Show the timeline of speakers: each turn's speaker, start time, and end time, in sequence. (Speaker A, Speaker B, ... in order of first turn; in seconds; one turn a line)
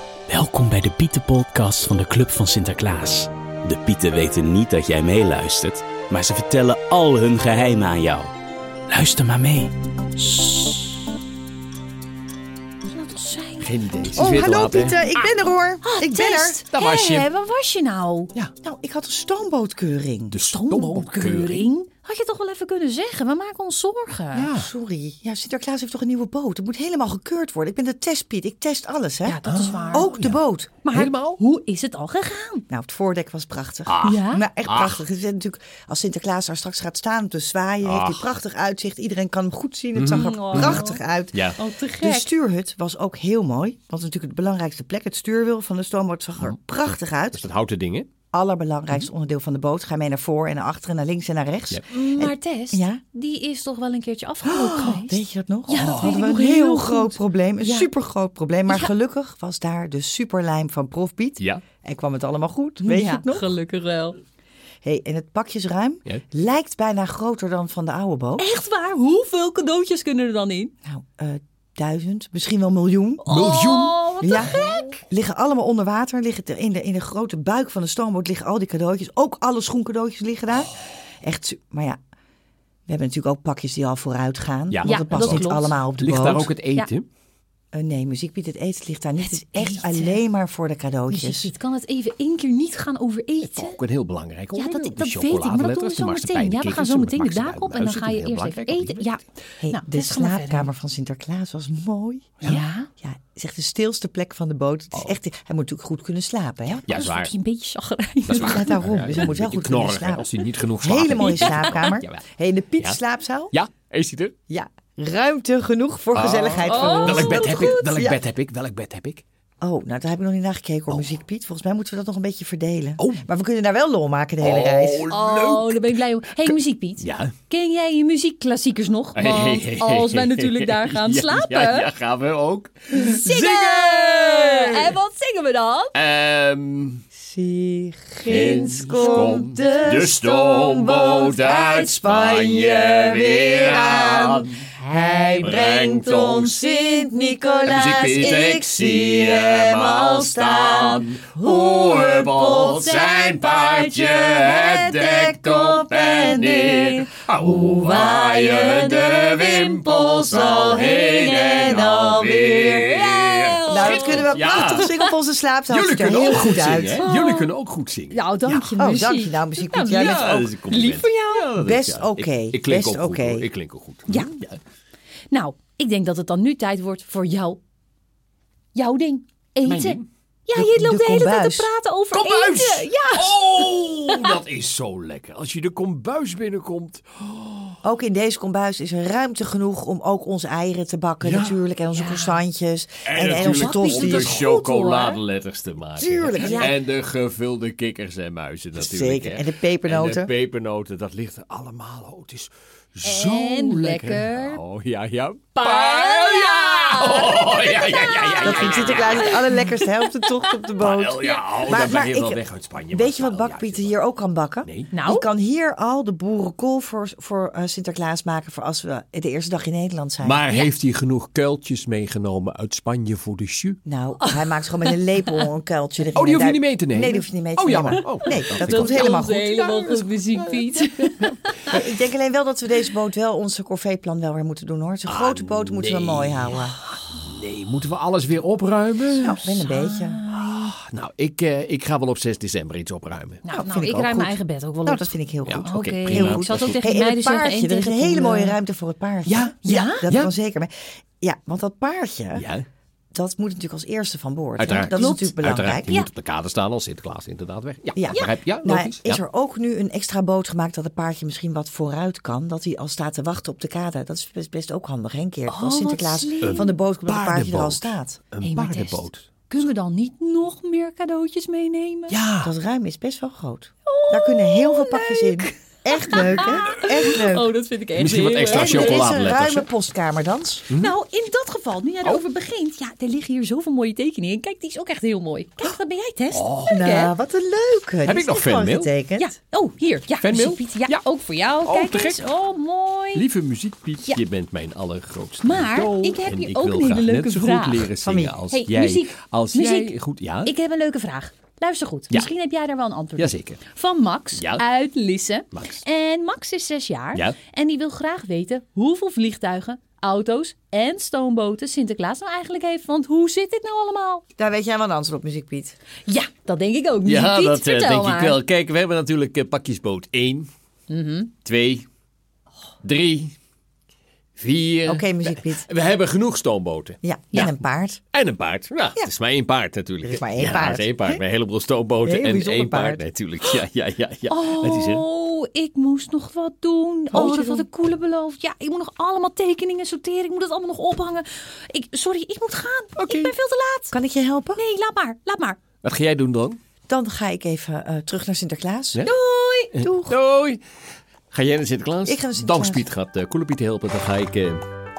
Speaker A: 0.3-8.3
Speaker A: 8.9-10.8
Speaker B: 12.8-13.7
Speaker C: 13.6-15.0
Speaker D: 14.2-16.6
Speaker B: 15.8-18.3
Speaker C: 16.7-17.3
Speaker D: 18.6-20.4
Speaker C: 20.3-21.7
Speaker B: 20.4-24.5
Speaker C: 24.3-24.7
Speaker D: 24.5-30.7
Speaker B: 29.2-30.1
Speaker C: 29.4-30.4
Speaker B: 30.8-32.6
Speaker C: 30.9-31.4
Speaker D: 32.7-47.5
Speaker C: 33.9-35.0
Speaker B: 34.0-34.4
Speaker C: 37.8-38.3
Speaker C: 39.9-41.6
Speaker B: 40.1-41.0
Speaker B: 41.6-42.3
Speaker C: 46.4-48.1
Speaker D: 48.3-53.0
Speaker B: 51.9-57.9
Speaker D: 54.4-63.5
Speaker C: 55.7-56.2
Speaker B: 62.8-64.2
Speaker D: 64.8-68.5
Speaker B: 68.4-70.7
Speaker D: 70.8-73.2
Speaker B: 73.2-75.0
Speaker C: 73.3-74.5
Speaker D: 74.2-82.0
Speaker D: 82.9-86.5
Speaker C: 84.7-87.1
Speaker B: 84.8-85.8
Speaker D: 87.7-91.5
Speaker B: 89.2-90.2
Speaker B: 91.1-93.8
Speaker C: 93.4-99.2
Speaker B: 94.5-100.7
Speaker D: 99.6-106.9
Speaker B: 102.4-102.9
Speaker B: 106.8-108.8
Speaker C: 106.9-107.3
Speaker C: 108.2-112.2
Speaker D: 108.3-113.6
Speaker B: 111.2-111.9
Speaker C: 113.5-114.3
Speaker D: 114.5-118.2
Speaker C: 116.1-119.2
Speaker B: 116.7-117.9
Speaker D: 119.6-125.1
Speaker C: 120.9-121.2
Speaker C: 123.0-123.2
Speaker C: 124.4-127.3
Speaker B: 125.1-131.9
Speaker C: 129.2-134.9
Speaker B: 132.9-135.9
Speaker C: 135.9-137.0
Speaker D: 137.2-152.4
Speaker C: 138.2-144.7
Speaker B: 145.1-145.6
Speaker C: 145.4-146.7
Speaker B: 146.8-148.6
Speaker C: 147.7-164.9
Speaker B: 152.0-157.1
Speaker B: 157.9-165.1
Speaker D: 161.6-162.5
Speaker D: 163.7-167.1
Speaker C: 165.7-168.2
Speaker B: 166.9-167.5
Speaker B: 168.1-171.5
Speaker D: 168.4-170.5
Speaker C: 170.0-174.6
Speaker D: 171.6-173.5
Speaker B: 174.1-174.3
Speaker B: 175.3-177.6
Speaker B: 178.7-183.4
Speaker C: 179.6-180.1
Speaker D: 180.5-181.7
Speaker C: 182.1-187.8
Speaker B: 184.1-184.4
Speaker D: 187.8-194.4
Speaker C: 191.2-191.6
Speaker B: 191.9-192.4
Speaker C: 193.0-209.6
Speaker B: 193.4-195.2
Speaker D: 196.0-196.7
Speaker B: 196.4-196.7
Speaker D: 198.8-200.3
Speaker B: 203.0-204.6
Speaker B: 205.6-210.2
Speaker D: 208.4-220.4
Speaker C: 210.8-214.0
Speaker C: 214.6-214.9
Speaker B: 214.9-215.3
Speaker C: 220.2-223.8
Speaker D: 223.8-229.4
Speaker B: 224.2-225.4
Speaker C: 226.1-231.3
Speaker B: 228.6-231.7
Speaker D: 231.7-236.8
Speaker C: 235.1-239.4
Speaker D: 239.2-240.2
Speaker B: 239.5-240.7
Speaker C: 240.3-243.4
Speaker B: 243.4-245.1
Speaker D: 243.5-252.4
Speaker C: 245.5-246.8
Speaker B: 245.6-248.6
Speaker C: 249.2-250.3
Speaker B: 249.6-250.1
Speaker C: 252.3-252.6
Speaker D: 253.1-255.9
Speaker C: 254.6-259.2
Speaker B: 254.9-256.1
Speaker D: 257.9-268.2
Speaker B: 265.5-266.7
Speaker C: 266.4-269.3
Speaker B: 268.4-272.2
Speaker C: 272.1-272.5
Speaker D: 272.4-277.5
Speaker B: 273.9-279.1
Speaker C: 277.9-279.7
Speaker D: 278.5-280.7
Speaker B: 280.7-287.1
Speaker C: 286.3-286.7
Speaker D: 286.7-289.3
Speaker C: 288.0-288.9
Speaker B: 289.2-293.2
Speaker C: 290.2-291.0
Speaker C: 291.6-292.2
Speaker C: 293.1-300.5
Speaker B: 295.4-297.9
Speaker D: 298.0-298.4
Speaker B: 298.5-314.2
Speaker C: 303.2-303.6
Speaker C: 304.3-304.6
Speaker C: 305.5-305.8
Speaker D: 314.4-315.8
Speaker B: 316.1-318.4
Speaker C: 317.0-320.5
Speaker B: 320.9-321.3
Speaker C: 321.4-321.9
Speaker C: 322.8-323.3
Speaker C: 324.4-327.0
Speaker D: 324.9-325.7
Speaker D: 327.0-328.0
Speaker C: 328.1-335.0
Speaker D: 330.0-331.2
Speaker D: 332.0-333.0
Speaker B: 334.3-344.0
Speaker D: 337.1-337.6
Speaker C: 343.0-343.3
Speaker D: 343.9-344.6
Speaker B: 344.6-345.6
Speaker C: 345.8-346.6
Speaker D: 346.9-349.1
Speaker B: 349.0-349.7
Speaker C: 349.7-350.6
Speaker D: 349.8-350.1
Speaker C: 351.3-354.6
Speaker D: 352.1-352.9